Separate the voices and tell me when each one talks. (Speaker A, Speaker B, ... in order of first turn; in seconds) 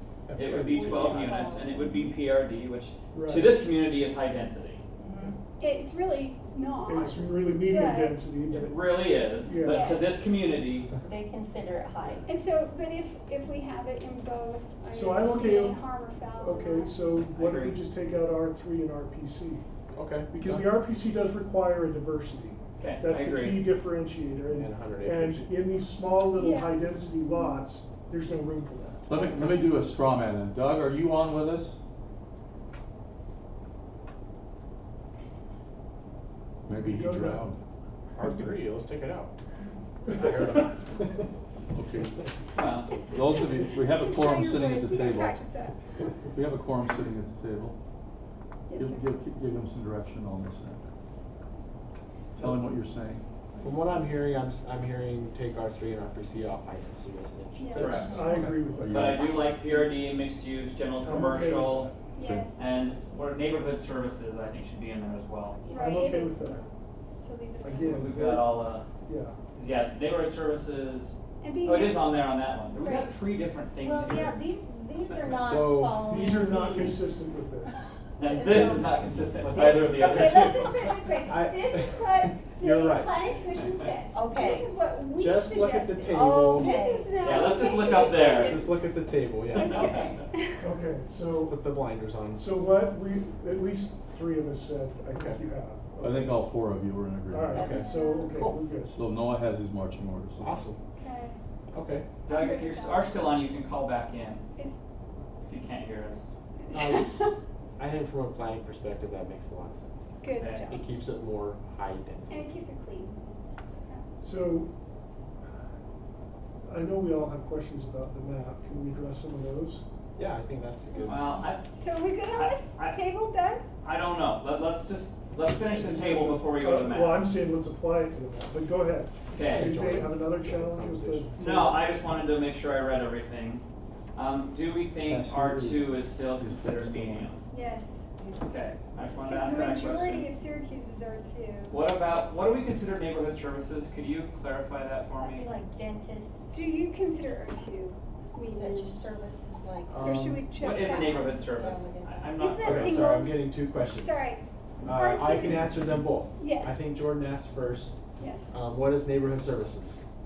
Speaker A: 0.3-1.4, 19.9-20.6, 24.5-25.5, 38.1-39.3, 40.1-41.1, 53.6-58.6, 75.1-76.9, 79.5-83.1, 85.1-86.8, 88.0-90.1, 91.5-92.5, 95.1-95.4, 97.5-98.5, 100.4-100.8, 101.7-102.0, 106.7-107.1, 107.8-112.5, 120.2-121.3, 129.4-131.3, 149.9-150.4, 152.6-154.3, 154.8-158.0, 158.5-160.0
Speaker B: 0.3-4.8, 8.5-10.9, 17.2-17.8, 22.8-23.7, 42.5-43.0, 57.8-58.1, 58.9-61.9, 62.5-65.6, 67.8-68.9, 69.5-74.5, 78.2-80.6, 87.2-88.7, 89.5-90.1, 102.2-104.4, 105.4-106.3, 110.4-110.7, 121.1-121.6, 122.2-123.0, 123.8-127.3, 129.3-129.7, 131.4-137.4, 138.4-140.3, 141.7-145.5, 150.6-153.1
Speaker C: 0.7-1.9, 5.0-5.4, 11.0-12.2, 73.8-77.0, 78.2-79.0, 84.1-84.7, 86.1-87.3, 145.2-146.5, 148.4-150.0, 151.1-152.3
Speaker D: 3.1-3.5, 6.8-9.9, 14.9-19.6, 20.3-29.4, 36.7-37.5, 57.8-59.2, 61.0-62.0, 65.7-66.7, 67.6-69.4, 76.0-78.0, 90.6-91.6, 92.4-96.5, 97.3-99.0, 114.2-114.7, 116.6-119.8, 125.7-131.9
Speaker E: 5.6-8.2, 9.6-10.1, 12.2-17.0, 26.4-26.8, 42.9-45.8, 48.7-49.0, 57.6-58.0, 59.0-59.6, 62.1-62.6, 65.7-68.1, 71.4-73.1, 80.0-88.7, 89.5-90.5, 97.6-98.5, 101.0-101.4, 102.3-103.2, 106.7-107.3, 110.2-110.8, 112.3-113.3, 121.7-123.6, 137.5-137.9, 139.2-141.8, 146.5-149.0, 149.9-151.3, 152.4-156.8, 158.2-158.5
Speaker F: 29.1-31.8, 36.7-37.6, 41.7-45.5, 46.2-47.8, 48.7-50.9, 52.4-53.7, 58.5-59.2, 62.2-62.5, 96.0-100.6, 135.0-137.3